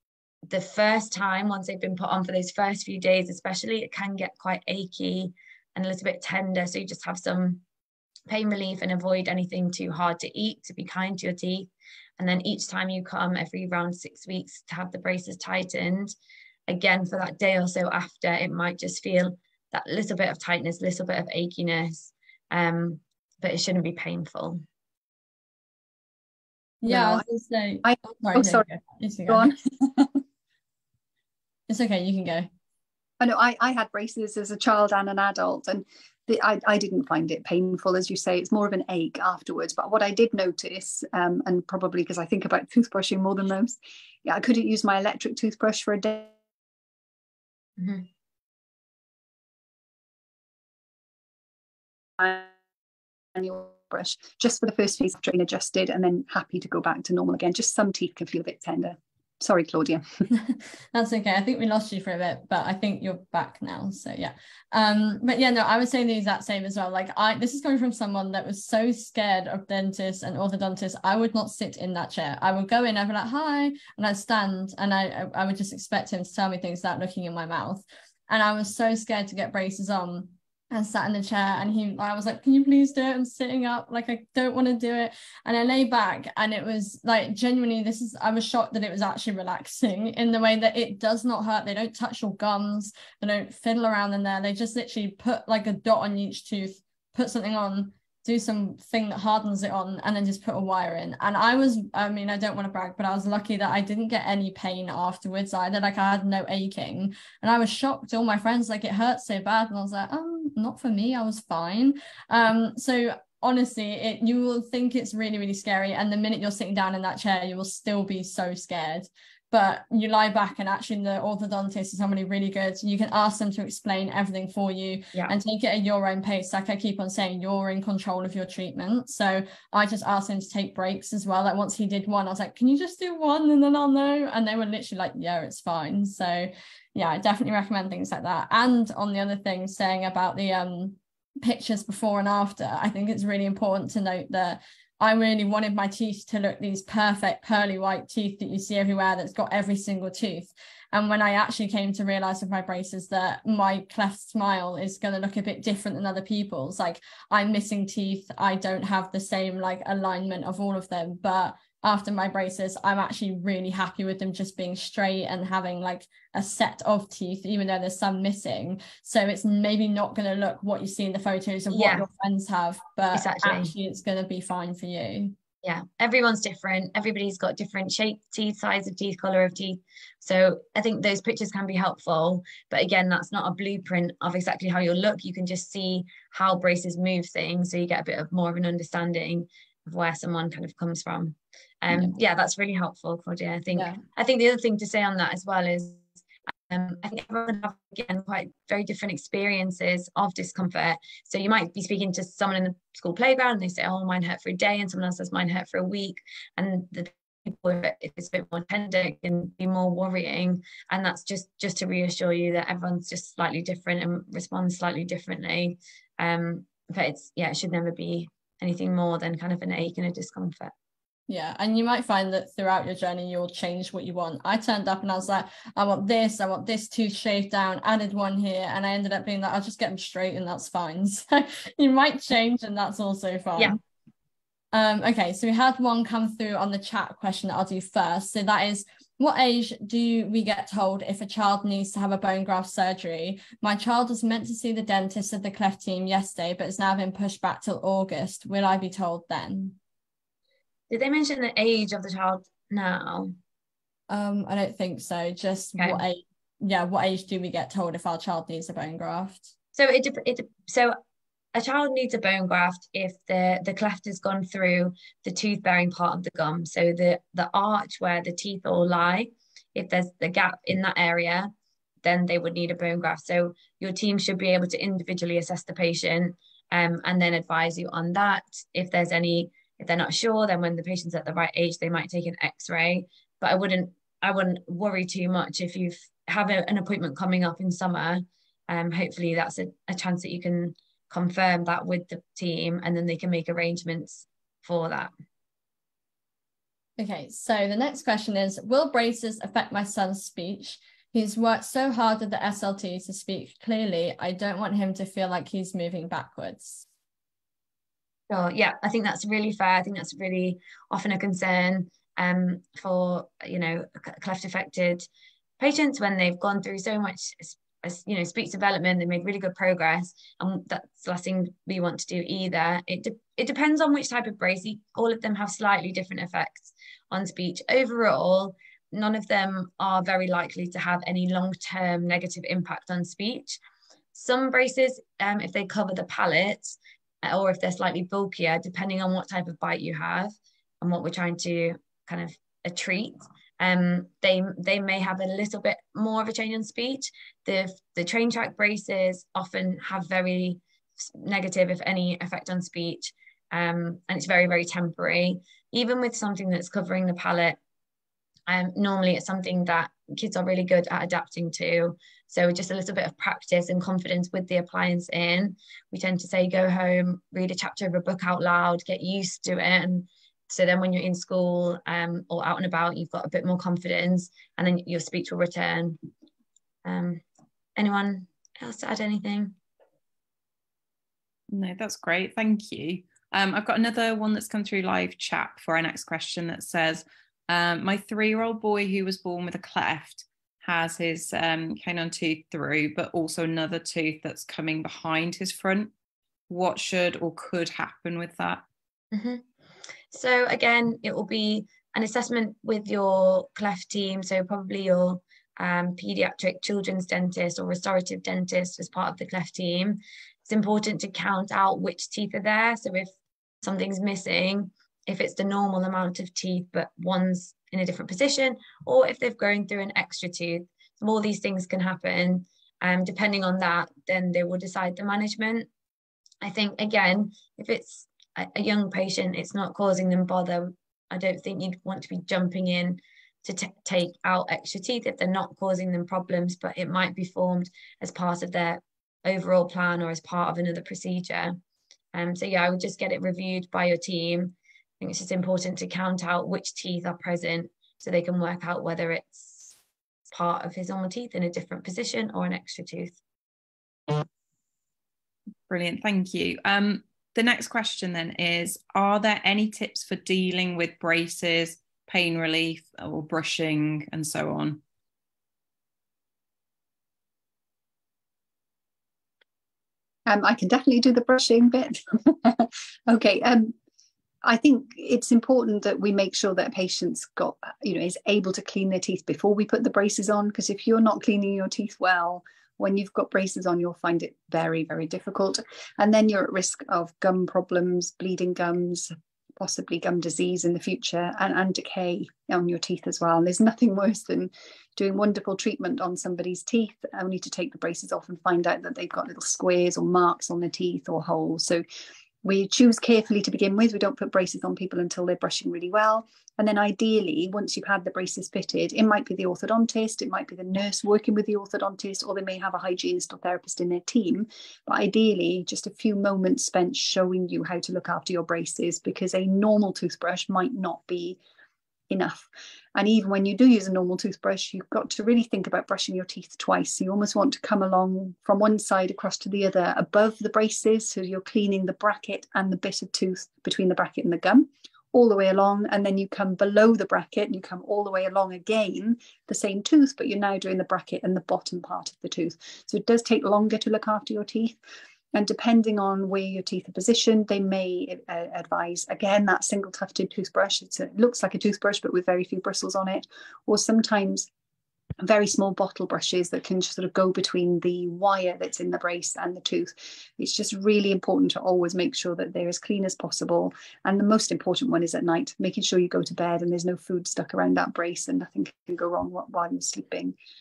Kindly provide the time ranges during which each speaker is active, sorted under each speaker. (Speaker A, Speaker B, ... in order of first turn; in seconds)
Speaker A: 0.5-7.6, 8.3-16.1, 16.7-24.6, 47.8-48.0, 171.7-172.1, 173.1-173.7, 175.6-196.1, 196.7-220.7, 250.9-253.3, 259.8-261.0, 261.5-271.5, 272.0-295.1, 308.3-315.1, 315.6-333.6, 334.1-357.6, 358.5-376.0, 376.8-377.2, 377.8-379.6, 399.1-399.4, 400.1-413.1, 413.6-425.7, 426.4-441.6, 442.1-449.7, 450.3-453.2
Speaker B: 26.8-29.5, 31.7-32.5, 60.3-175.3, 191.9-192.2, 193.7-194.0, 221.3-233.8, 234.7-249.8, 254.1-259.4, 297.0-306.9
Speaker C: 26.9-27.2, 27.8-28.7, 29.3-30.2, 33.2-46.3, 52.2-52.5, 53.3-60.1, 470.3-473.7, 474.4-501.8, 502.4-521.4, 522.1-544.8, 545.3-554.5, 555.2-570.3
Speaker D: 381.5-395.9, 396.5-398.6, 455.7-464.8